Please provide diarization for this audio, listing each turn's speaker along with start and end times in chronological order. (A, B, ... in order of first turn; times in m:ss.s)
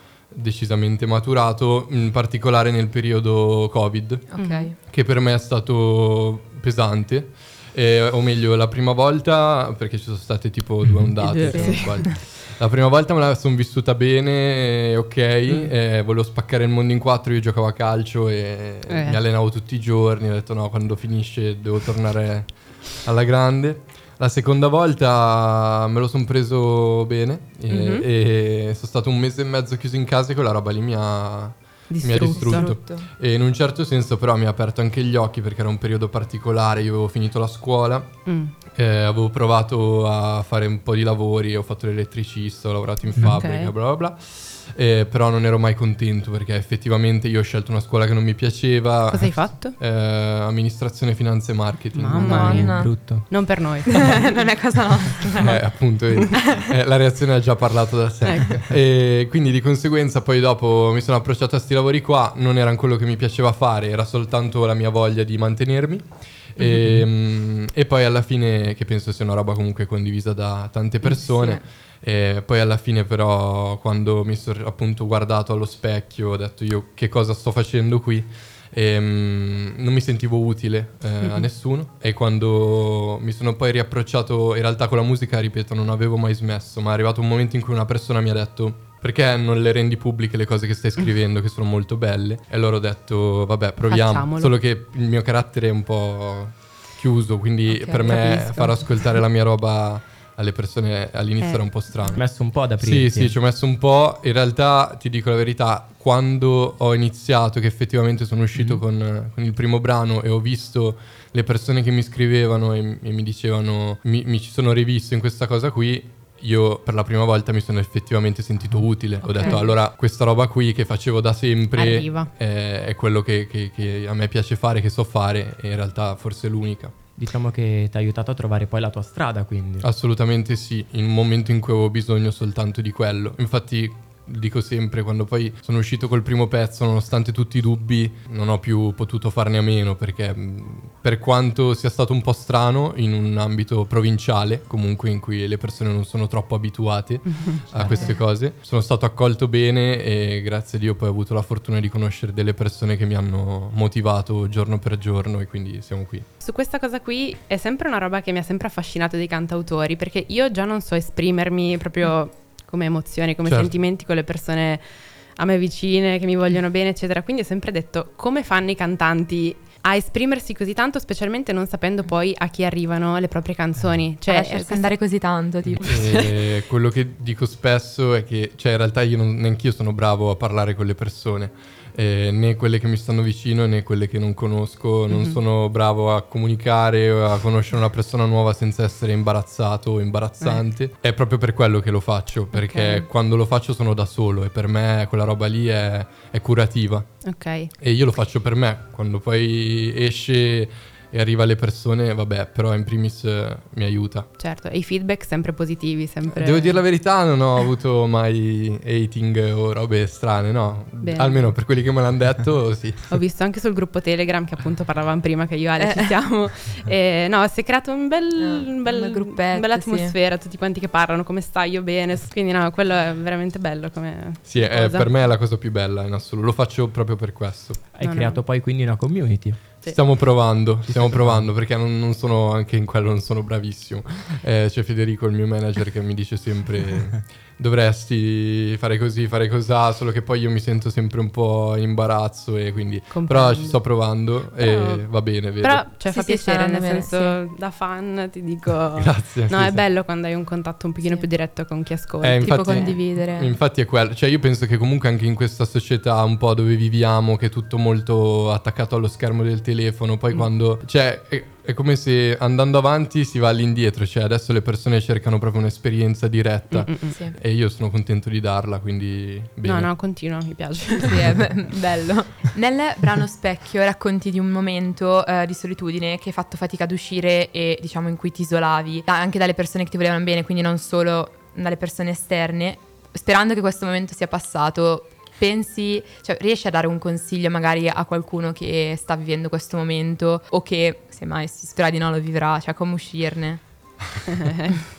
0:00.3-0:52.6 A
0:04.3-0:04.7 B
0:04.4-0:04.7 C
0:11.2-0:12.2 C
0:11.5-0:12.0 B
0:18.9-0:19.2 C
0:27.7-0:28.1 C
0:31.9-0:32.8 C
0:32.2-0:33.1 B
0:38.3-0:38.5 C
0:43.2-0:43.4 D
0:43.2-0:43.7 C
0:49.1-0:49.8 C
0:51.9-0:54.3 C
0:52.2-0:53.3 D
0:52.2-0:53.0 B
0:53.9-0:55.7 B
0:55.4-1:42.2 A
0:56.2-0:56.7 B
0:58.2-0:58.6 C
1:11.4-1:11.6 B
1:33.9-1:34.6 C
1:37.7-1:38.1 B
1:38.0-1:39.0 C
1:42.1-1:43.4 D
1:42.8-2:06.9 A
1:59.2-1:59.7 B
1:59.4-1:59.6 C
2:01.8-2:02.3 C
2:07.2-2:09.9 D
2:09.8-2:36.3 A
2:27.3-2:28.1 C
2:27.8-2:28.1 D
2:27.9-2:28.2 B
2:36.4-2:55.0 C
2:43.4-2:43.7 A
2:54.3-2:56.3 B
2:55.8-3:17.1 A
3:05.1-3:05.4 C
3:10.4-3:10.6 C
3:12.5-3:13.0 C
3:17.2-3:17.7 C
3:17.8-3:24.3 A
3:24.4-3:26.8 C
3:26.3-3:33.1 A
3:31.0-3:31.5 C
3:33.1-3:45.1 C
3:35.8-3:36.1 B
3:38.4-3:40.1 B
3:44.5-3:47.8 A
3:48.0-3:49.6 D
3:48.0-3:48.4 C
3:49.9-4:05.9 A
3:51.0-3:51.4 D
4:03.1-4:13.0 C
4:06.1-4:07.4 B
4:09.0-4:09.8 A
4:12.2-4:29.9 A
4:12.4-4:13.6 B
4:26.7-4:27.2 C
4:29.6-4:31.4 C
4:31.1-4:53.6 B
4:54.3-4:54.8 C